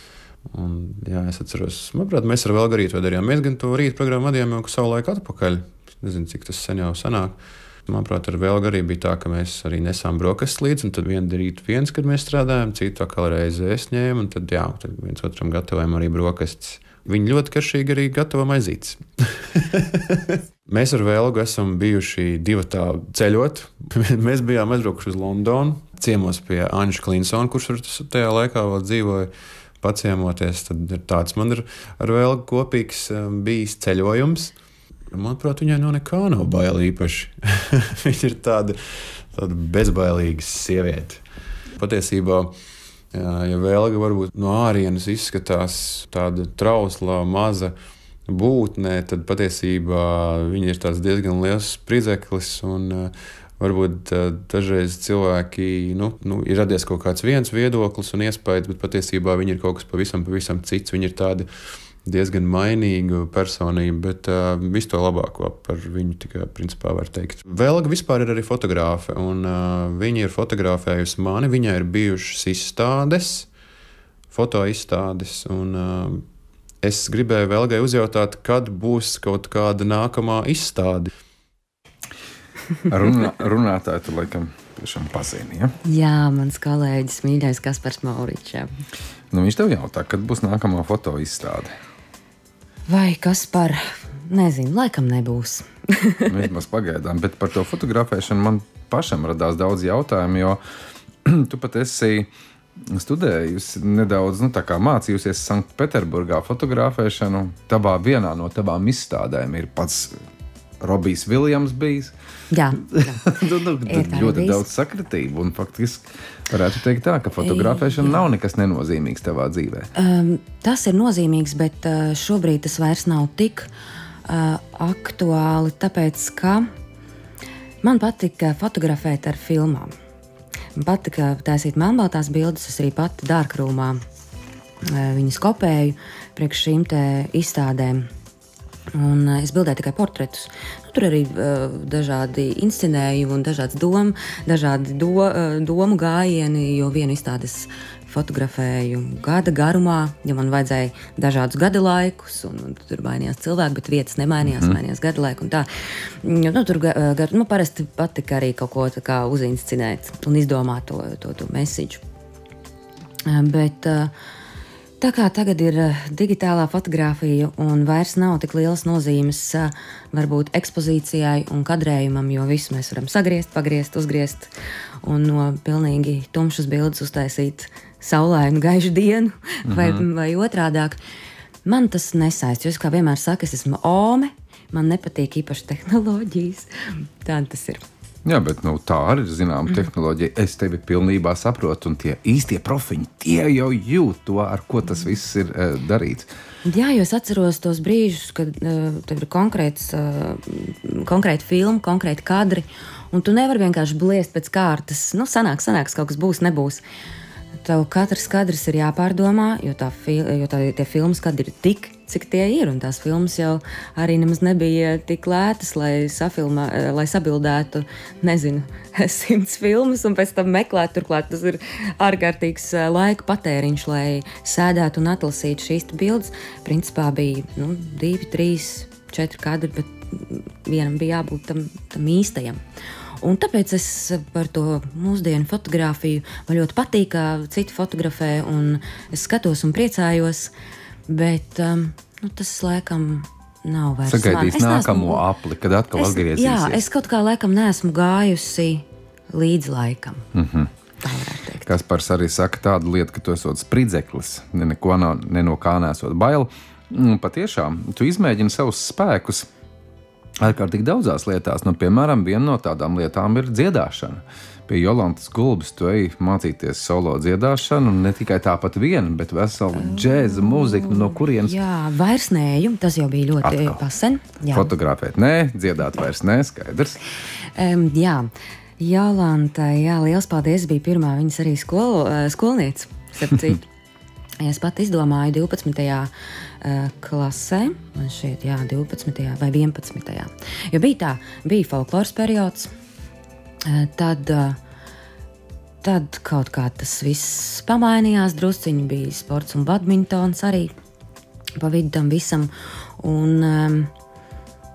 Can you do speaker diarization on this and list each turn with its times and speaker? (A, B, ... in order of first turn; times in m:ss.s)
0:00.5-0:34.6 A
0:35.1-0:41.2 A
0:41.8-0:42.6 A
0:43.1-0:47.8 A
0:48.3-1:01.5 A
1:02.0-1:13.5 A
1:14.3-1:16.3 A
1:16.8-1:21.1 A
1:22.9-1:25.7 B
1:25.8-1:28.7 C
1:29.3-1:31.7 B
1:32.9-1:36.3 C
1:36.3-1:40.6 B
1:41.2-1:50.2 B
1:50.8-1:52.1 B
1:52.5-1:54.6 C
1:52.8-1:59.9 B
1:57.4-1:58.2 C
2:00.0-2:03.7 C
2:04.3-2:06.7 C
2:07.8-2:09.9 C
2:10.8-2:14.0 C
2:14.8-2:18.1 C
2:18.9-2:35.7 C
2:34.4-2:34.8 B
2:36.2-2:42.0 C
2:43.3-2:44.1 C
2:45.0-2:54.5 C
2:55.0-3:01.0 C
2:59.7-3:00.0 B
3:01.6-3:06.7 C
3:07.2-3:07.8 C
3:08.2-3:16.3 B
3:16.6-3:26.8 C
3:27.6-3:52.6 C
3:53.2-4:00.5 C
4:01.1-4:05.2 C
4:04.1-4:06.8 B
4:06.0-4:10.3 C
4:10.3-4:10.7 B
4:11.0-4:11.7 C
4:11.6-4:19.5 B
4:20.4-4:31.6 B
4:29.8-4:34.7 C
4:33.4-4:33.8 B
4:34.5-4:37.0 B
4:37.6-4:43.6 C
4:44.4-4:52.7 C
4:53.6-4:54.6 C
4:55.8-5:00.7 C
5:01.6-5:03.9 C